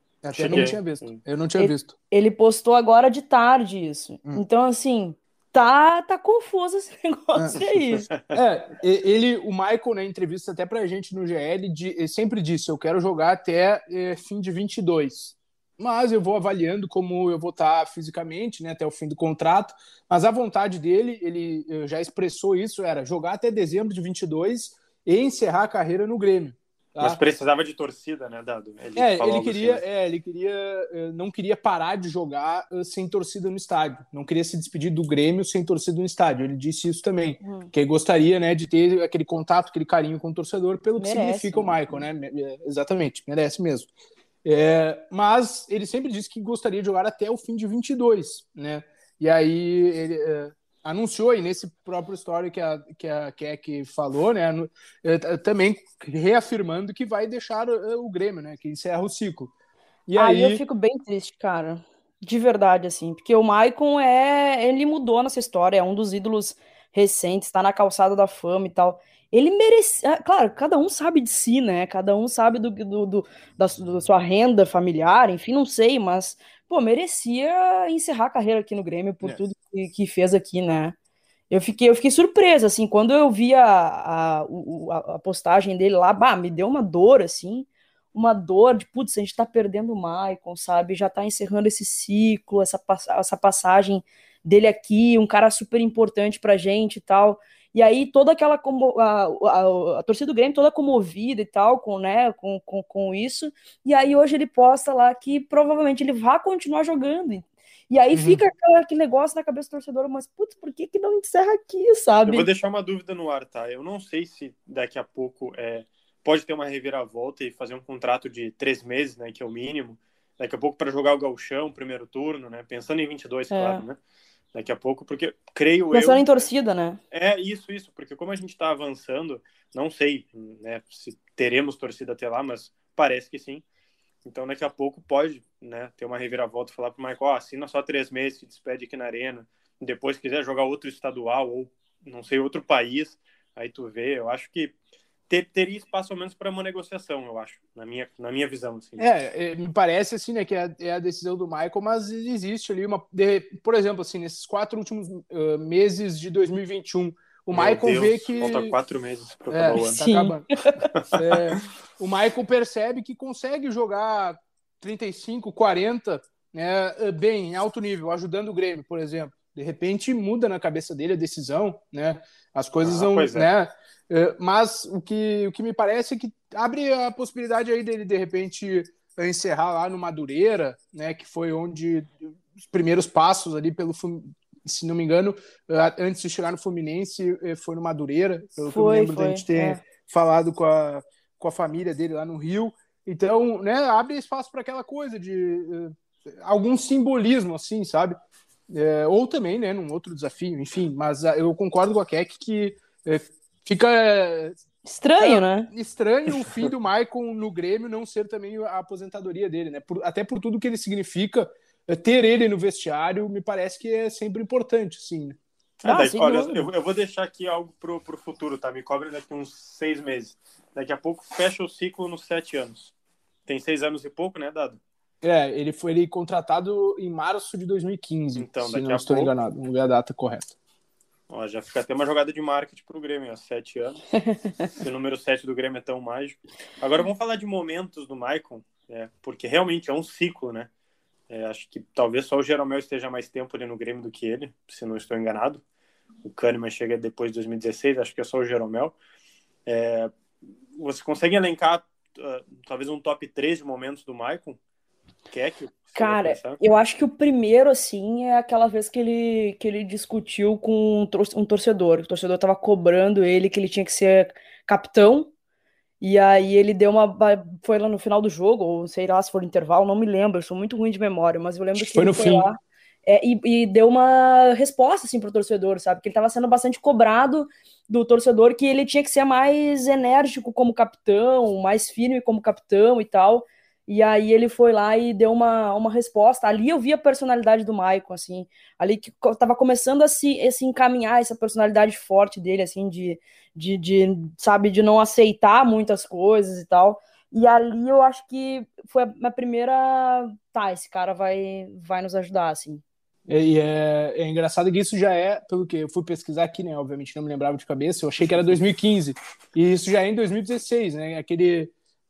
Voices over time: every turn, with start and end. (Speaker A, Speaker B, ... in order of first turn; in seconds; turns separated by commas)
Speaker A: 0.2-1.9, Speaker B: 0.3-1.2, Speaker C: 1.6-8.1, Speaker B: 7.5-8.4, Speaker A: 8.3-27.2, Speaker B: 27.0-29.8, Speaker A: 28.9-43.9, Speaker C: 37.4-37.7, Speaker C: 41.0-42.0, Speaker A: 44.4-59.5, Speaker A: 60.1-60.6, Speaker C: 60.1-80.9, Speaker C: 81.5-112.5, Speaker A: 108.1-108.4, Speaker B: 112.2-124.0, Speaker C: 123.5-123.8, Speaker B: 124.5-126.5, Speaker C: 125.9-127.0, Speaker B: 127.1-133.6, Speaker B: 134.2-144.7, Speaker B: 145.3-149.1, Speaker A: 149.0-158.7, Speaker B: 157.5-160.0, Speaker A: 159.5-160.5, Speaker C: 159.8-160.9, Speaker B: 160.9-161.6, Speaker A: 161.1-198.2, Speaker B: 172.8-173.5, Speaker C: 188.7-189.8, Speaker A: 198.7-204.6, Speaker C: 204.8-205.7, Speaker A: 205.2-215.4, Speaker B: 215.8-222.9, Speaker C: 215.8-216.7, Speaker B: 223.4-224.8, Speaker A: 225.2-230.6, Speaker B: 228.3-229.3, Speaker B: 231.3-234.0, Speaker B: 234.7-240.7, Speaker B: 241.3-245.6, Speaker B: 246.2-248.9, Speaker B: 249.7-250.1, Speaker B: 250.7-254.6, Speaker B: 255.3-256.6, Speaker C: 255.9-265.3, Speaker C: 266.0-302.8, Speaker A: 271.8-272.5, Speaker A: 303.3-311.7